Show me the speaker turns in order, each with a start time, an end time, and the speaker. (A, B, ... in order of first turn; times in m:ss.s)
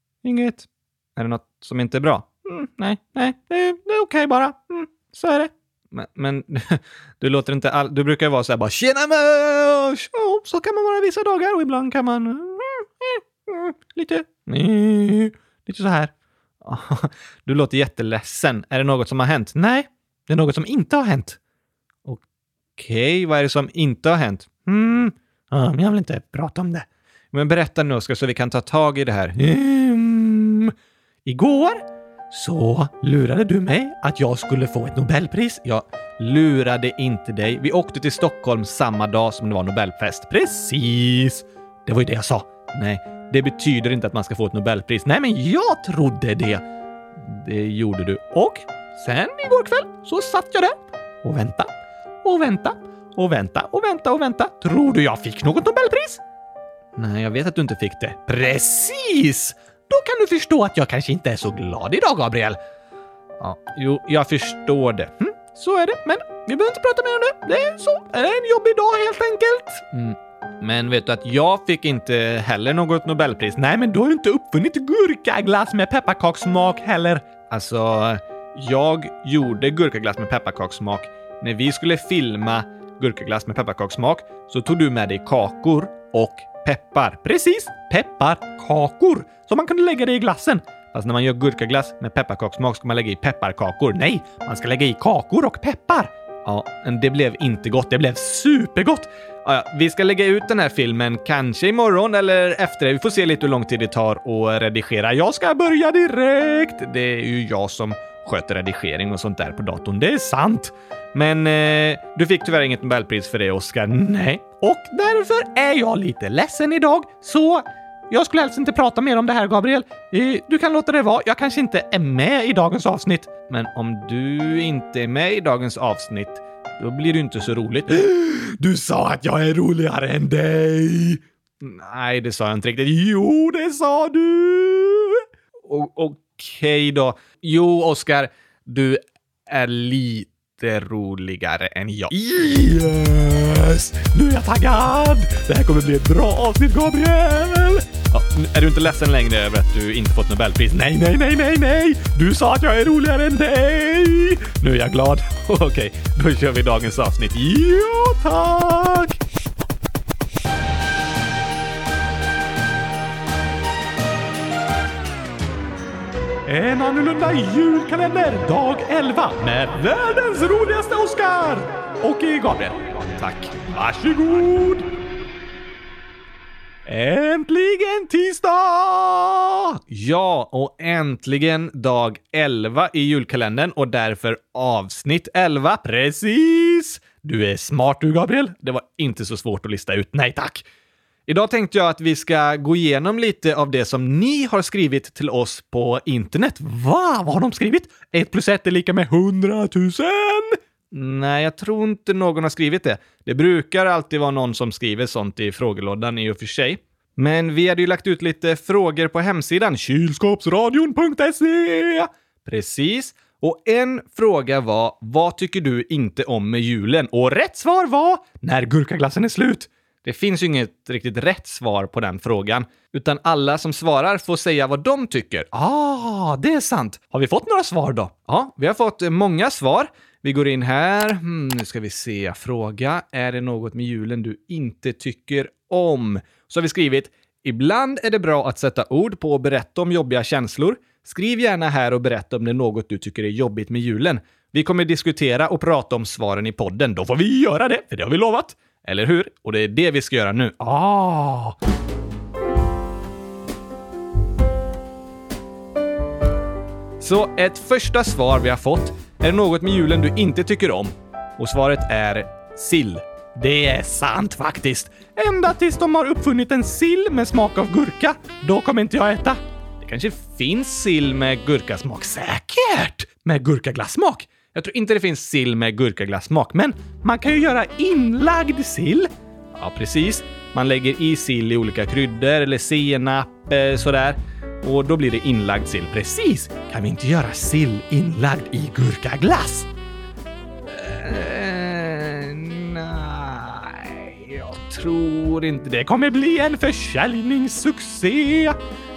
0:00.2-0:21.4 A
0:22.8-0:30.7 A
0:31.2-0:46.6 A
0:47.2-0:51.7 A
0:52.2-0:56.2 A
0:57.0-1:02.6 A
1:03.4-2:39.2 A
2:46.5-2:54.9 A
2:56.9-3:10.7 A
3:11.3-4:11.6 A
4:17.0-4:49.7 A
4:50.7-4:58.6 A